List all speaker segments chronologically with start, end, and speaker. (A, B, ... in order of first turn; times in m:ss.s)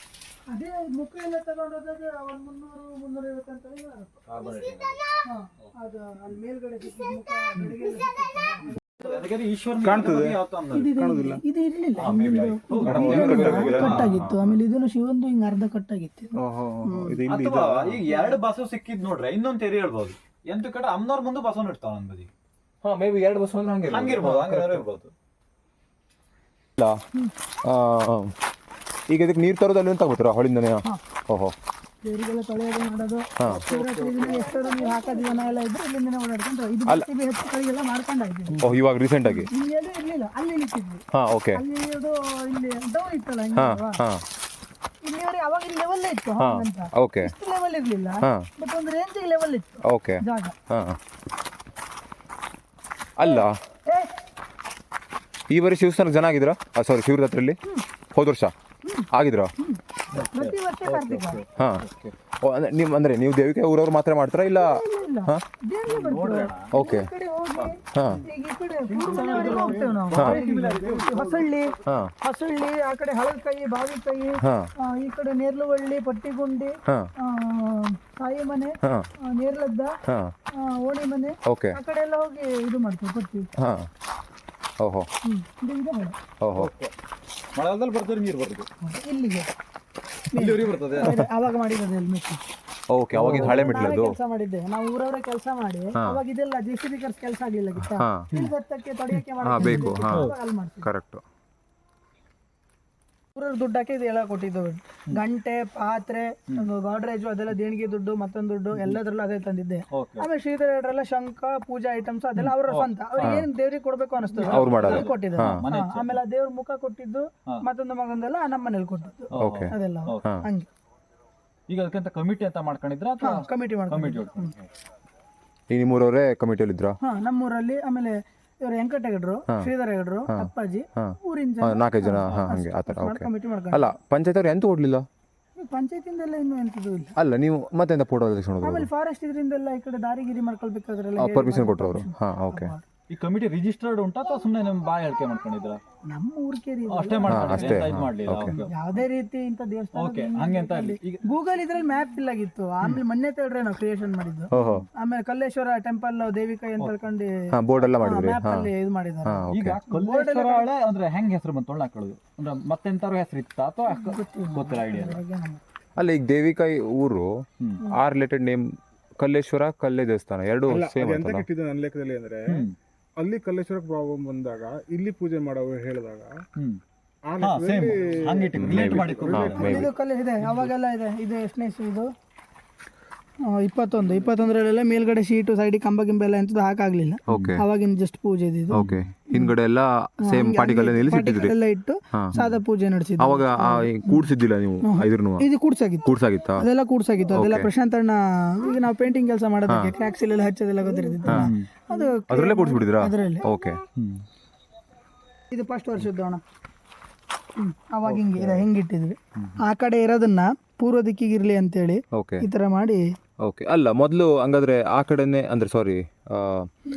0:00.5-0:04.2 A
0:04.3-0:05.2 B
0:05.2-0:09.2 A
0:08.7-0:10.9 B
0:09.8-0:10.4 C
0:10.7-0:17.2 A
0:11.0-0:11.4 C
0:12.0-0:14.2 B
0:12.7-0:14.6 D
0:12.8-0:13.3 C
0:16.4-0:17.1 D
0:17.0-0:17.8 C
0:17.3-0:22.3 B
0:18.1-0:18.4 A
0:22.8-0:24.8 D
0:23.9-0:25.1 B
0:27.6-0:28.3 D
0:29.1-0:31.5 D
0:32.0-0:38.7 A
0:33.4-0:33.7 D
0:33.7-0:34.3 B
0:38.6-0:39.5 D
0:39.2-0:44.0 A
0:41.1-0:41.6 D
0:43.6-0:44.2 D
0:45.0-0:50.6 A
0:46.4-0:47.3 D
0:48.2-0:48.5 D
0:49.9-0:51.0 D
0:53.2-0:53.6 D
0:53.2-0:54.1 A
0:55.5-0:57.6 D
0:58.1-0:58.5 D
0:58.8-1:01.4 A
0:59.1-0:59.5 D
1:00.1-1:02.1 B
1:01.6-1:01.8 D
1:02.4-1:05.4 D
1:04.5-1:20.0 A
1:05.9-1:06.7 B
1:06.7-1:07.1 D
1:07.6-1:08.2 B
1:07.9-1:08.2 D
1:08.9-1:11.7 B
1:09.1-1:09.9 C
1:10.2-1:10.4 D
1:11.9-1:12.1 D
1:14.4-1:14.7 D
1:18.8-1:19.1 D
1:20.1-1:20.3 D
1:20.6-1:23.5 A
1:21.5-1:21.8 D
1:23.6-1:23.9 D
1:24.8-1:25.1 D
1:25.2-1:26.2 A
1:26.4-1:26.7 D
1:26.6-1:26.9 B
1:27.6-1:28.7 B
1:28.8-1:29.5 A
1:30.3-1:32.4 A
1:30.4-1:31.2 B
1:32.9-1:34.2 D
1:33.1-1:33.8 B
1:33.4-1:40.9 A
1:37.8-1:38.3 D
1:39.4-1:41.2 D
1:39.6-1:40.3 B
1:43.4-2:00.7 A
1:49.9-1:50.3 B
1:52.4-1:53.4 B
1:53.2-1:53.5 D
1:54.3-1:56.2 B
1:54.4-1:55.6 D
1:59.3-2:00.2 B
1:59.4-2:00.5 D
2:01.7-2:04.5 B
2:03.2-2:04.5 A
2:05.7-2:07.0 D
2:07.0-2:13.8 A
2:10.3-2:15.1 D
2:15.6-2:17.2 A
2:17.2-2:18.9 D
2:18.6-2:22.8 A
2:21.2-2:22.7 D
2:23.1-2:25.8 B
2:26.1-2:27.8 A
2:26.9-2:29.0 B
2:27.3-2:28.6 D
2:28.6-2:37.3 A
2:29.9-2:31.2 B
2:34.5-2:34.9 D
2:34.5-2:34.9 B
2:37.5-2:38.7 D
2:38.0-2:40.7 A
2:39.2-2:39.8 D
2:39.5-2:45.2 B
2:43.9-2:45.6 A
2:46.0-2:51.5 D
2:50.7-2:52.7 C
2:52.5-2:52.7 B
2:53.2-2:56.4 C
2:57.2-2:59.9 C
2:57.4-2:59.9 B
2:58.5-2:59.9 D
2:59.6-3:02.1 A
3:03.5-3:09.5 A
3:07.3-3:07.6 B
3:07.3-3:07.6 D
3:08.7-3:11.6 D
3:08.7-3:09.0 B
3:10.2-3:14.2 A
3:12.1-3:12.4 D
3:13.2-3:15.5 D
3:14.8-3:23.5 A
3:16.0-3:16.7 D
3:17.3-3:17.7 D
3:19.7-3:19.9 D
3:21.3-3:21.7 B
3:21.3-3:21.5 D
3:22.3-3:23.8 D
3:24.0-3:24.2 B
3:25.5-3:26.4 A
3:27.6-3:33.0 A
3:28.0-3:28.7 B
3:32.1-3:32.4 D
3:33.4-3:36.7 D